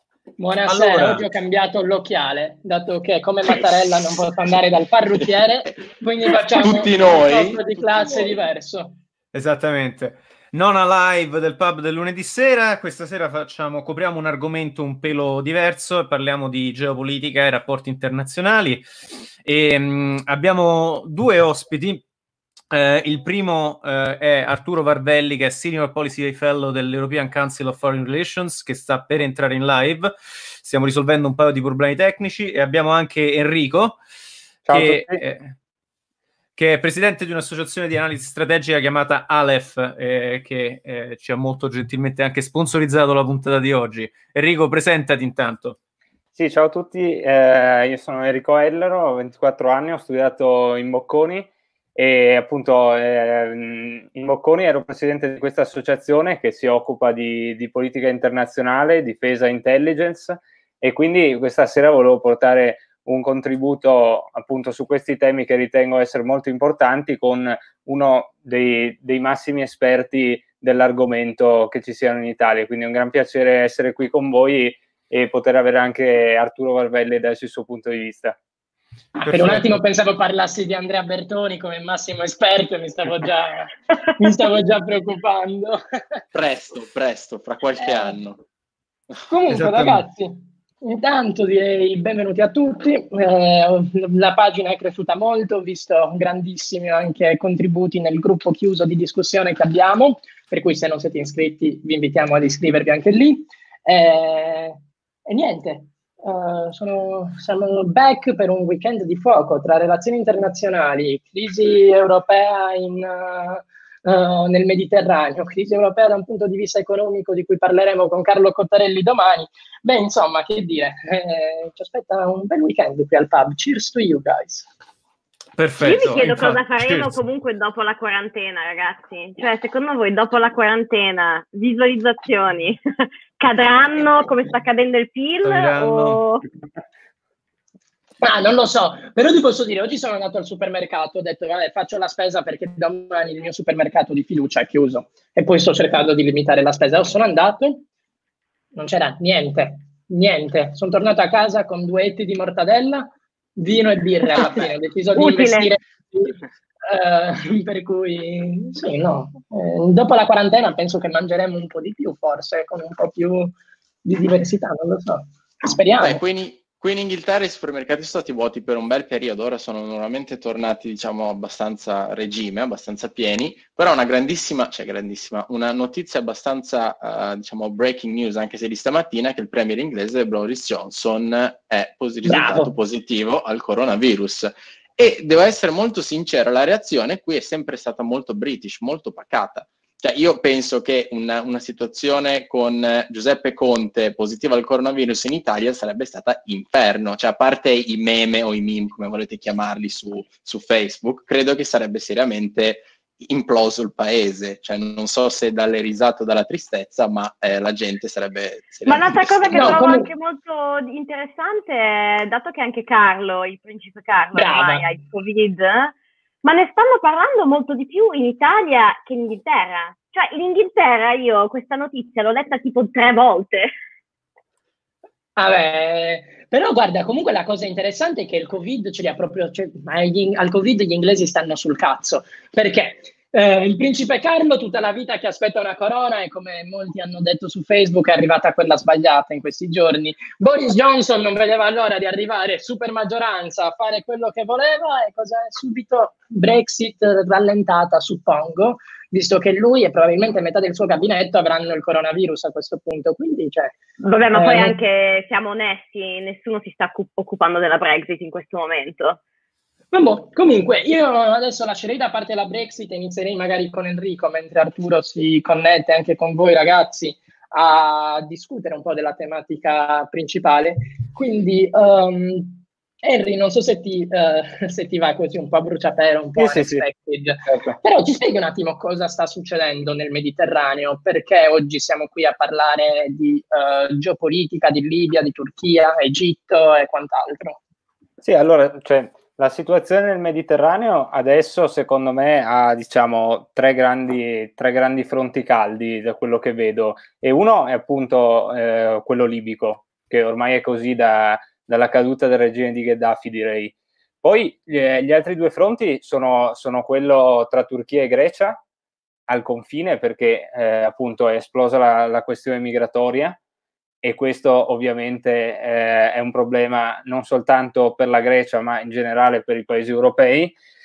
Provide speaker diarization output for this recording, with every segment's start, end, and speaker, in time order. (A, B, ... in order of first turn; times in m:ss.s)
0:00.4-0:09.0 A
0:00.7-0:01.3 B
0:06.5-0:08.4 C
0:09.3-0:18.8 B
0:19.4-0:22.0 B
0:22.7-0:30.1 B
0:30.6-0:34.0 B
0:34.7-0:35.2 D
0:34.7-0:35.5 B
0:36.6-0:45.8 B
0:46.4-1:18.4 D
1:19.2-1:26.2 A
1:19.2-1:19.8 B
1:26.3-1:28.4 C
1:27.8-1:28.2 A
1:29.3-2:04.7 A
1:29.5-1:30.0 B
2:05.6-2:07.2 B
2:05.8-2:16.4 E
2:15.4-2:16.5 B
2:18.2-2:27.9 A
2:28.7-2:46.2 A
2:35.2-2:35.7 E
2:46.0-3:29.8 C
3:02.2-3:02.7 A
3:28.9-3:43.7 E
3:29.5-3:30.1 A
3:34.3-3:34.9 A
3:45.4-4:13.8 A
4:14.0-4:19.2 E
4:14.3-4:14.8 A
4:19.9-4:47.6 A
4:36.4-4:36.9 D
4:37.5-4:37.8 D
4:48.2-5:08.6 D
5:09.3-5:13.4 D
5:14.0-5:20.6 D